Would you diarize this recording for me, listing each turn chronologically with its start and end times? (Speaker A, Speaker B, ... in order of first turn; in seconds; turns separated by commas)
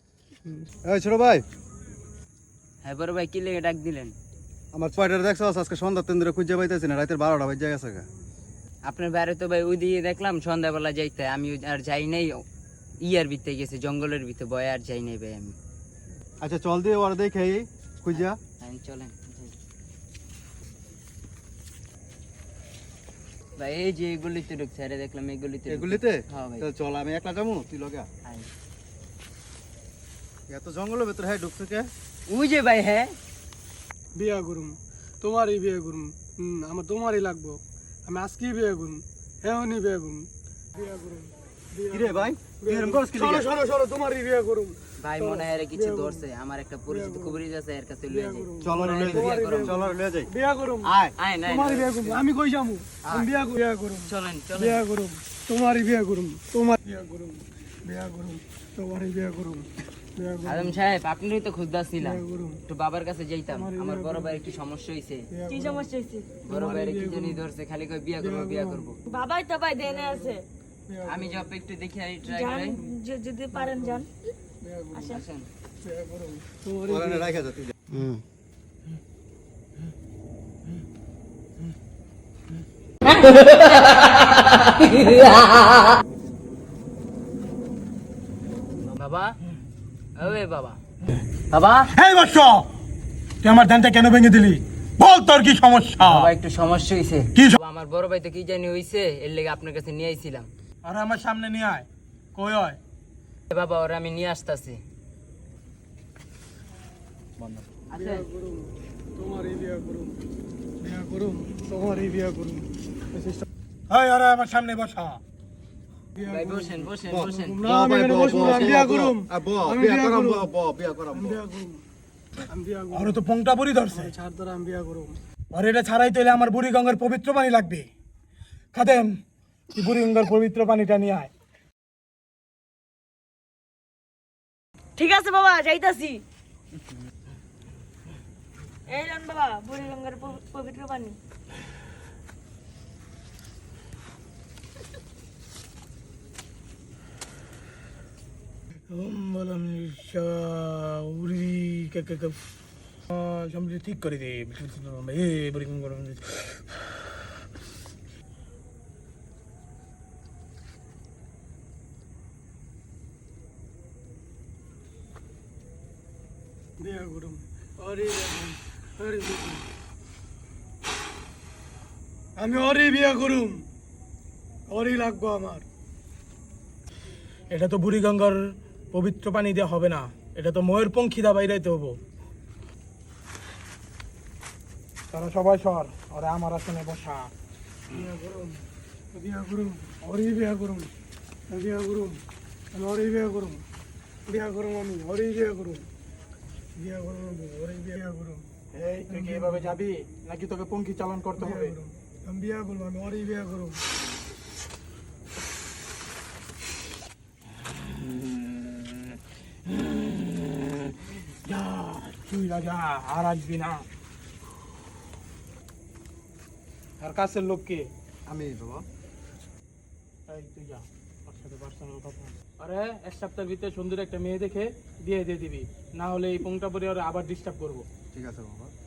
Speaker A: 0.8-1.4, Speaker B: 2.8-4.2, Speaker A: 4.7-8.1, Speaker B: 8.8-12.4, Speaker B: 13.0-15.6, Speaker A: 16.4-18.4, Speaker B: 18.1-19.5, Speaker B: 23.6-26.7, Speaker A: 25.7-28.1, Speaker B: 28.2-28.5, Speaker A: 30.5-31.9, Speaker B: 32.3-33.1, Speaker C: 34.1-46.2, Speaker A: 41.9-43.5, Speaker B: 45.0-49.8, Speaker C: 46.9-47.4, Speaker C: 48.1-50.9, Speaker A: 48.6-50.3, Speaker A: 50.8-51.1, Speaker B: 51.2-52.2, Speaker C: 51.5-60.8, Speaker B: 53.0-53.3, Speaker B: 54.0-54.8, Speaker B: 60.4-65.3, Speaker C: 62.0-62.6, Speaker C: 63.5-64.5, Speaker C: 65.3-65.9, Speaker D: 65.5-66.4, Speaker B: 66.5-69.0, Speaker C: 66.5-67.4, Speaker C: 68.2-69.0, Speaker D: 69.1-70.4, Speaker C: 69.8-71.5, Speaker B: 71.1-72.8, Speaker D: 72.2-74.1, Speaker C: 73.5-74.1, Speaker C: 74.6-75.2, Speaker B: 75.0-75.5, Speaker C: 75.8-77.4, Speaker A: 76.9-77.7, Speaker B: 77.9-78.2, Speaker B: 88.9-89.4, Speaker B: 90.2-90.8, Speaker B: 91.5-91.9, Speaker E: 91.9-92.7, Speaker E: 93.4-96.3, Speaker B: 96.0-100.5, Speaker E: 100.8-102.8, Speaker B: 103.5-104.8, Speaker B: 107.9-108.3, Speaker C: 107.9-110.2, Speaker C: 110.8-113.5, Speaker E: 113.9-115.2, Speaker C: 116.2-120.5, Speaker B: 116.2-118.8, Speaker A: 117.1-121.4, Speaker C: 121.1-121.8, Speaker C: 122.5-123.2, Speaker E: 122.9-124.1, Speaker C: 123.9-125.2, Speaker E: 125.5-127.9, Speaker E: 128.7-129.2, Speaker E: 129.7-131.3, Speaker D: 135.0-136.2, Speaker D: 138.9-141.2, Speaker E: 148.9-152.4, Speaker E: 153.1-156.8, Speaker C: 166.8-169.7, Speaker C: 172.3-173.7, Speaker C: 174.7-175.7, Speaker E: 177.5-182.0, Speaker E: 185.1-187.3, Speaker C: 187.9-190.9, Speaker C: 191.5-192.2, Speaker C: 192.7-193.7, Speaker C: 194.3-195.9, Speaker C: 196.8-198.5, Speaker E: 198.7-201.8, Speaker C: 199.1-199.8, Speaker C: 201.4-203.8, Speaker E: 208.2-208.4, Speaker E: 209.7-213.8, Speaker E: 217.0-217.9, Speaker A: 218.3-218.8, Speaker E: 220.3-227.8, Speaker A: 228.1-228.7